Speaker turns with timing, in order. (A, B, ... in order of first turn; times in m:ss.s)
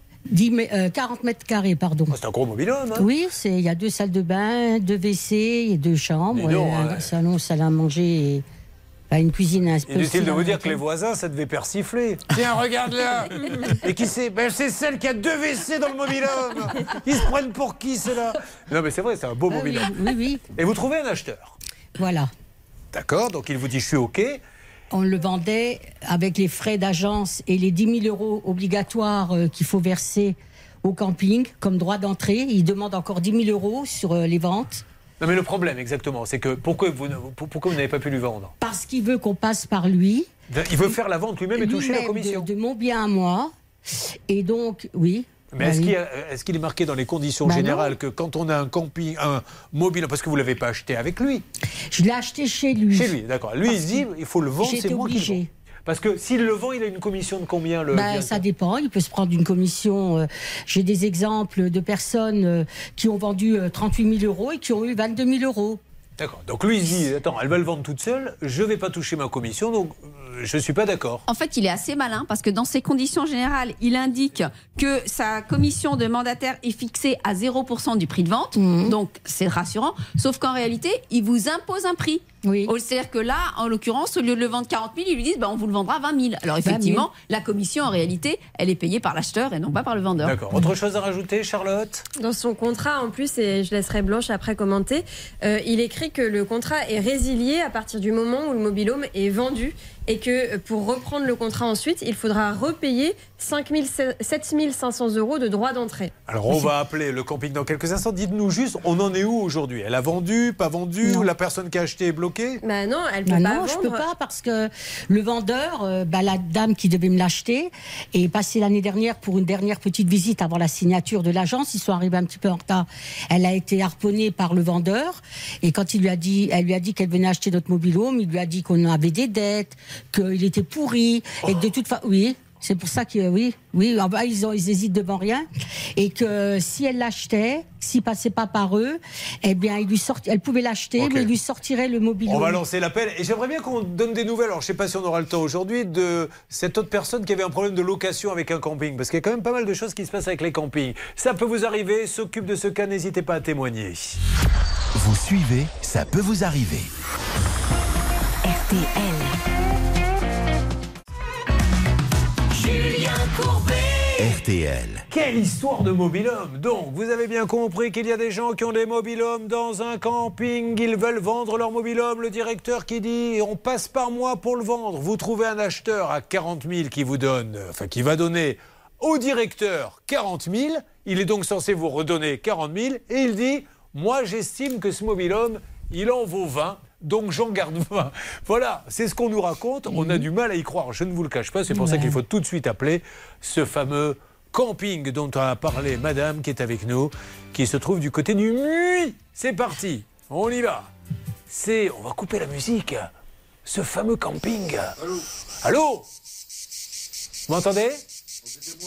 0:00.3-0:02.2 A
0:02.1-0:03.1 B
0:03.0-0:08.4 A
0:06.3-0:07.1 B
0:09.1-0:10.8 A
0:09.9-0:20.0 B
0:19.5-0:20.4 A
0:20.5-0:21.6 B
0:22.0-0:22.3 A
0:22.9-0:24.4 B
0:24.9-0:34.8 A
0:35.2-0:38.5 B
0:38.6-0:40.3 A
0:40.5-0:42.5 B
0:41.5-0:43.5 A
0:44.3-0:45.9 A
0:45.5-0:51.4 B
0:47.4-0:47.9 A
0:51.9-0:53.1 A
0:52.9-0:58.4 B
0:53.7-0:54.0 A
0:54.6-0:55.5 A
0:57.9-1:05.8 A
1:06.2-1:11.2 B
1:11.3-1:30.4 C
1:18.6-1:18.9 A
1:22.4-1:22.7 A
1:26.6-1:27.0 A
1:30.2-1:32.0 B
1:32.2-1:46.1 D
1:46.3-1:52.6 B
1:51.0-1:51.3 A
1:52.6-1:54.0 D
1:53.2-2:22.6 A
2:21.0-2:21.3 B
2:22.3-2:34.2 B
2:34.9-2:36.9 E
2:44.2-2:45.0 E
2:45.1-3:20.9 B
3:09.9-3:10.2 A
3:11.7-3:12.2 A
3:21.5-3:23.1 B
3:23.6-3:25.0 B
3:25.6-3:26.0 B
3:27.5-3:28.0 B